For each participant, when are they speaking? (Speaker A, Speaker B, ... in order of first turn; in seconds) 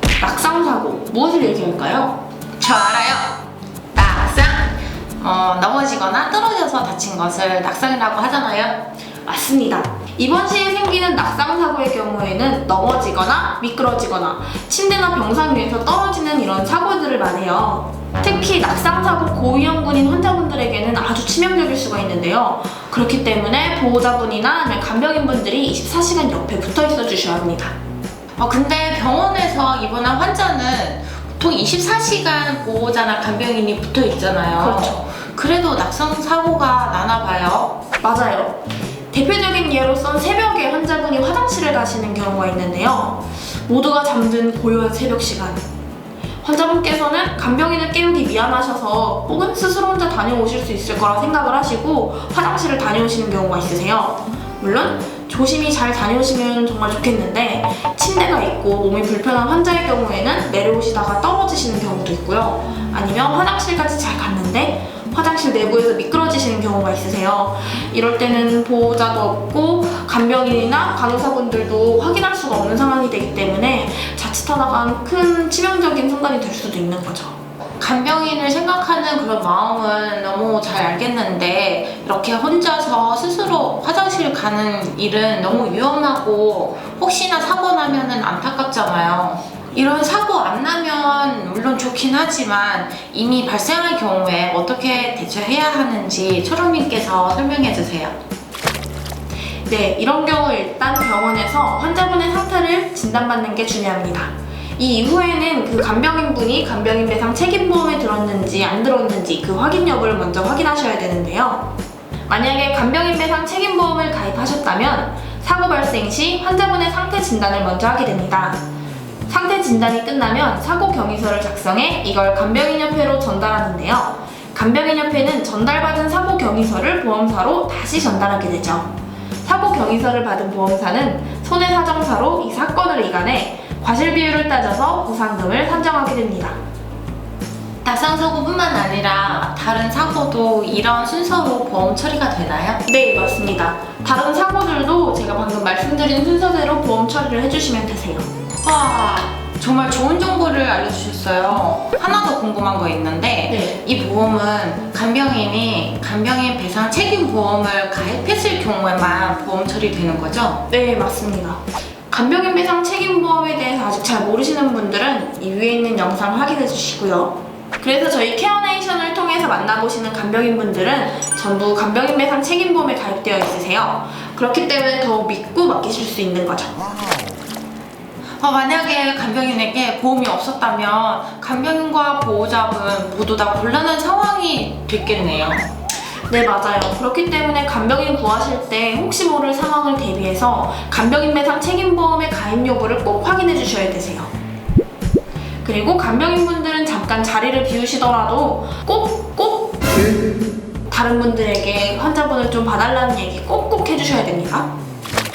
Speaker A: 0.2-2.2, 9.2-27.8, 34.6-35.0, 38.0-45.6, 46.4-77.4, 99.7-111.7, 112.3-118.6, 119.3-136.6, 142.8-148.3, 153.5-153.7, 160.7-176.8, 186.3-194.3, 195.6-200.3, 200.9-204.7
Speaker B: 2.6-8.9, 28.4-37.8, 77.8-98.2, 137.8-142.8, 148.6-160.6, 178.4-185.7